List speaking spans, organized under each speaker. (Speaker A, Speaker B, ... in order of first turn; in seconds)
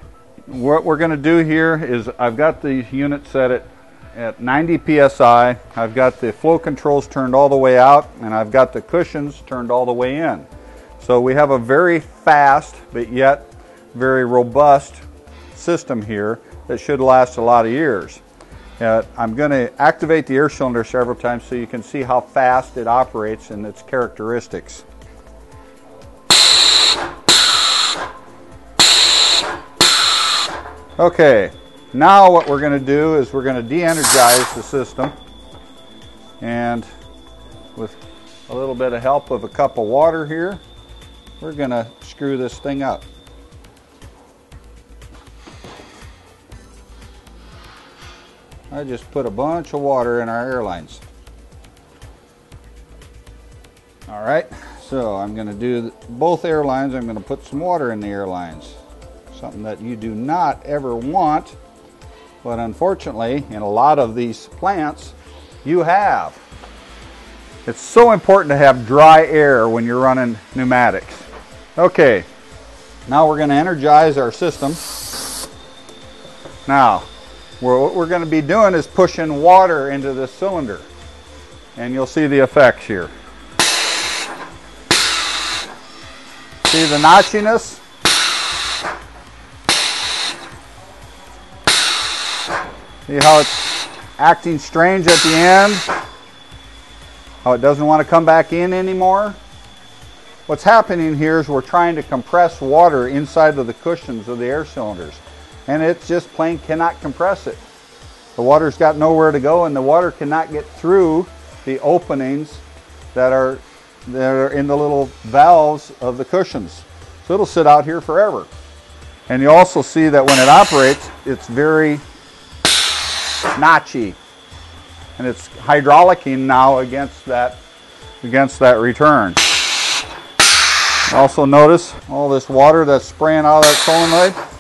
Speaker A: 0.5-10.5, 11.0-18.2, 18.8-24.9, 31.0-35.1, 36.4-36.9, 37.8-40.6, 41.4-43.1, 48.7-51.0, 54.1-58.8, 59.3-61.6, 62.4-66.4, 67.7-72.3, 73.1-74.8, 76.7-77.1, 77.6-80.9, 81.8-83.1, 86.7-87.8, 93.1-93.6, 94.2-95.9, 97.4-99.4, 100.5-107.6, 108.4-118.5, 119.3-122.0, 123.6-124.2, 125.2-127.6, 128.2-129.4, 131.1-134.4